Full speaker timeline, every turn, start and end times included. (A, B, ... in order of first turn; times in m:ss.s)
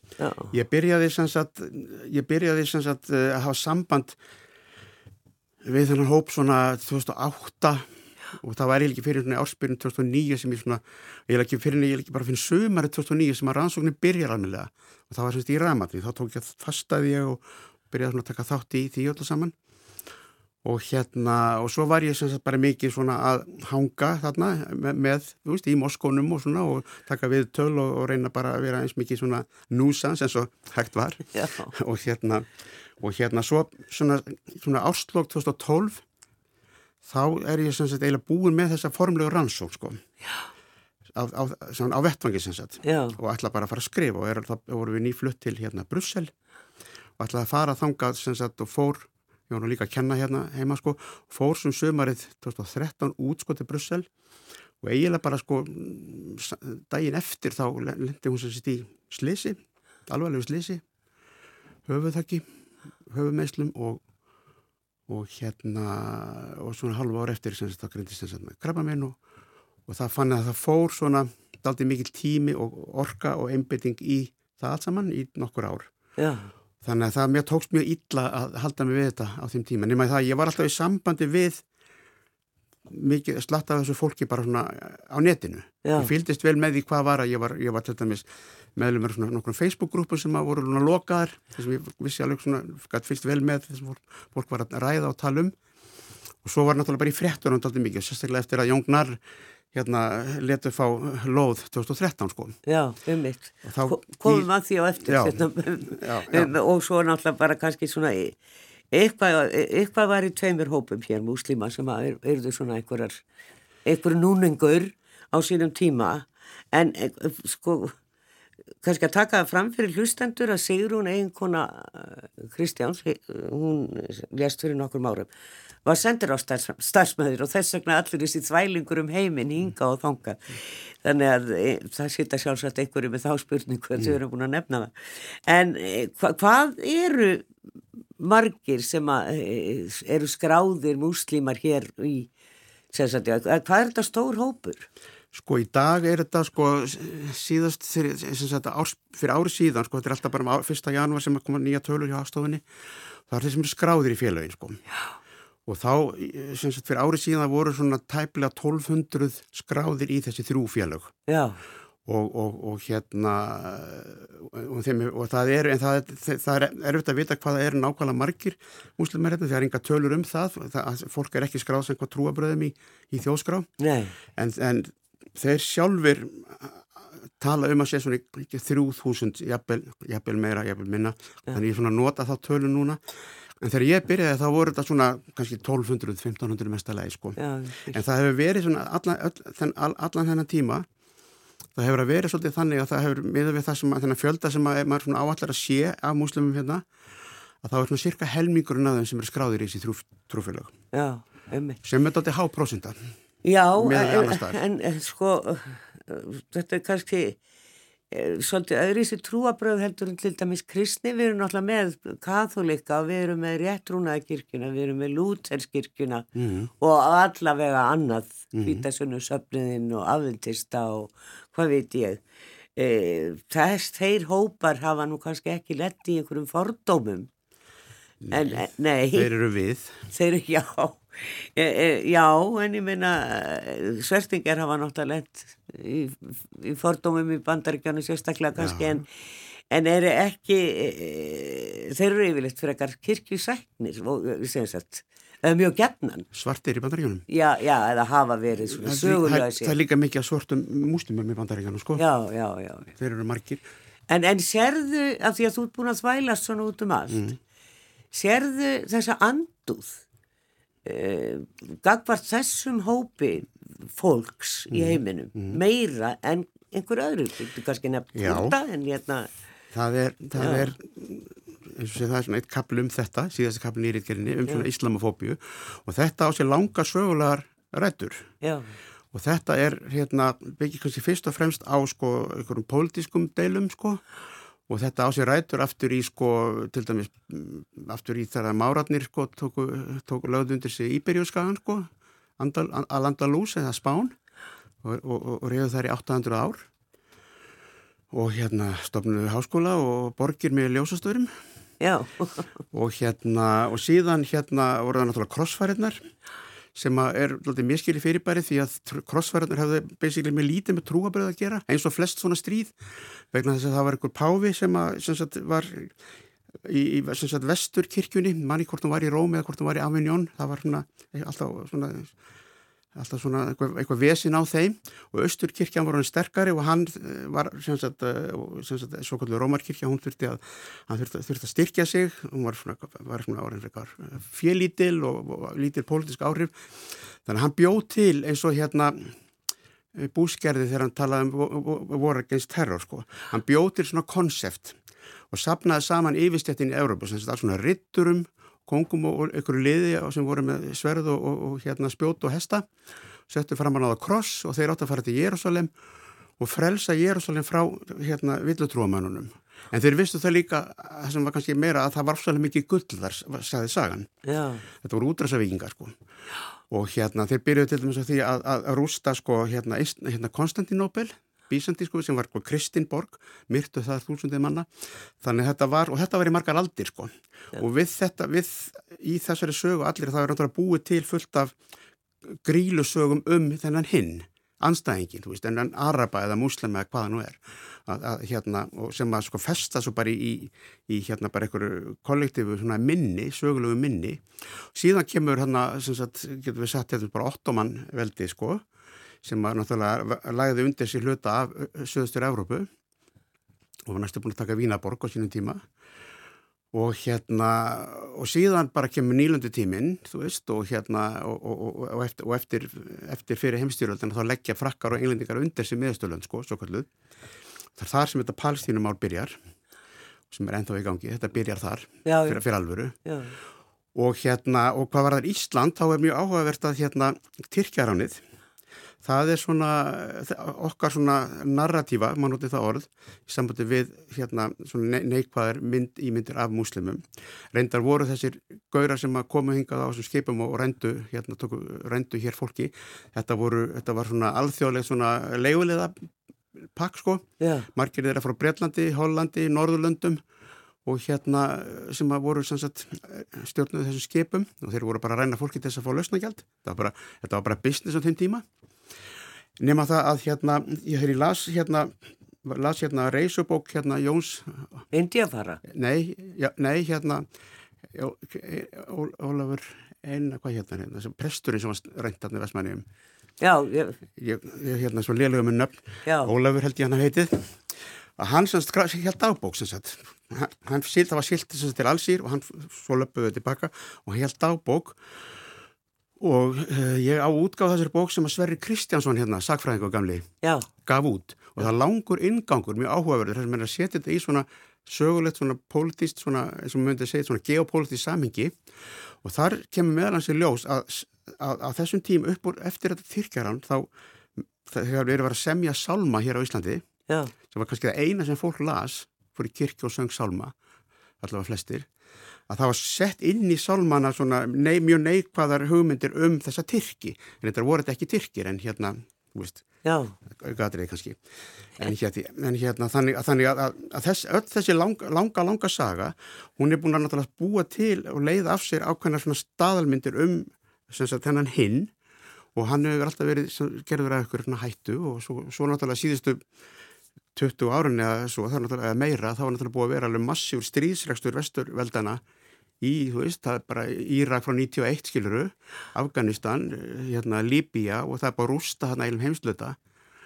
0:00.2-0:00.5 A
0:00.5-0:04.2 B
0:05.6-0:19.6 B
0:20.6-0:36.0 B
0:31.3-0:31.7 A
0:37.0-0:40.0 B
0:41.1-0:46.3 B
0:42.8-0:43.2 A
0:47.2-0:54.1 B
0:54.8-1:00.8 B
1:01.9-1:02.4 B
1:03.1-1:04.0 B
1:05.1-1:09.2 B
1:09.9-1:15.9 B
1:16.2-1:16.5 A
1:16.8-1:21.6 B
1:22.9-1:35.6 B
1:25.8-1:26.1 A
1:36.4-1:39.2 B
1:39.7-1:42.6 B
1:42.7-1:48.4 A
1:43.6-1:44.5 B
1:45.0-1:46.5 B
1:48.9-1:53.2 A
1:53.8-1:58.0 A
1:58.8-2:05.3 A
2:05.8-2:17.5 A
2:18.2-2:22.3 A
2:22.9-2:24.9 A
2:25.3-2:32.6 B
2:33.3-2:34.8 B
2:35.7-2:41.1 B
2:41.3-2:41.6 A
2:42.1-2:53.7 B
2:53.8-2:54.2 A
2:54.3-3:03.0 B
3:03.6-3:10.9 B
3:07.4-3:08.0 A
3:11.8-3:16.9 B
3:17.6-3:20.7 B
3:20.9-3:21.8 A
3:21.8-3:23.0 B
3:23.4-3:27.4 A
3:23.8-3:24.6 B
3:28.1-3:36.3 A
3:36.4-3:36.7 B
3:36.8-3:42.2 A
3:38.5-3:38.8 B
3:42.8-3:47.3 A
3:48.2-3:50.0 B
3:48.3-3:49.3 A
3:50.1-3:59.1 A
3:58.6-3:59.0 B
3:59.7-4:06.3 A
4:06.3-4:07.3 B
4:07.3-4:09.8 A
4:08.7-4:12.0 B
4:12.0-4:12.9 A
4:13.0-4:13.6 B
4:14.1-4:17.3 A
4:18.1-4:20.0 A
4:20.8-4:29.3 A
4:24.7-4:25.6 B
4:28.1-4:28.6 B
4:29.7-4:38.3 B
4:30.4-4:30.7 A
4:38.4-4:38.8 A
4:39.1-4:44.0 B
4:44.7-4:54.2 B
4:54.8-4:56.7 B
4:58.1-5:01.3 B
5:01.8-5:02.5 A
5:02.7-5:06.0 B
5:06.8-5:12.8 B
5:13.3-5:16.0 B
5:16.6-5:22.1 B
5:22.9-5:39.2 B
5:40.0-5:44.8 B
5:45.3-5:52.7 B
5:53.3-5:55.7 B
5:56.4-6:04.1 B
6:04.2-6:04.6 A
6:04.8-6:06.0 B
6:06.7-6:14.7 B
6:15.2-6:21.6 B
6:22.2-6:38.6 B
6:39.2-6:42.7 B
6:43.9-6:45.6 B
6:46.7-6:56.9 B
6:57.8-6:59.4 B
7:00.3-7:03.0 B
7:02.0-7:02.4 A
7:03.0-7:03.4 A
7:04.0-7:08.2 B
7:09.0-7:30.2 B
7:27.4-7:27.7 A
7:30.8-7:38.4 B
7:39.6-7:44.8 B
7:44.9-7:45.6 A
7:45.6-7:47.3 B
7:47.9-7:52.8 B
7:53.4-7:54.0 A
7:54.2-8:05.0 B
7:56.0-7:56.3 A
8:06.2-8:18.6 B
8:10.4-8:10.7 A
8:19.2-8:23.9 B
8:24.6-8:26.8 B
8:27.1-8:27.3 A
8:27.5-8:30.5 B
8:31.2-8:31.9 B
8:32.5-8:39.6 B
8:39.8-8:40.2 A
8:40.3-8:41.2 B
8:41.8-8:51.9 B
8:52.6-8:56.4 B
8:57.4-9:02.2 B
9:02.8-9:09.8 B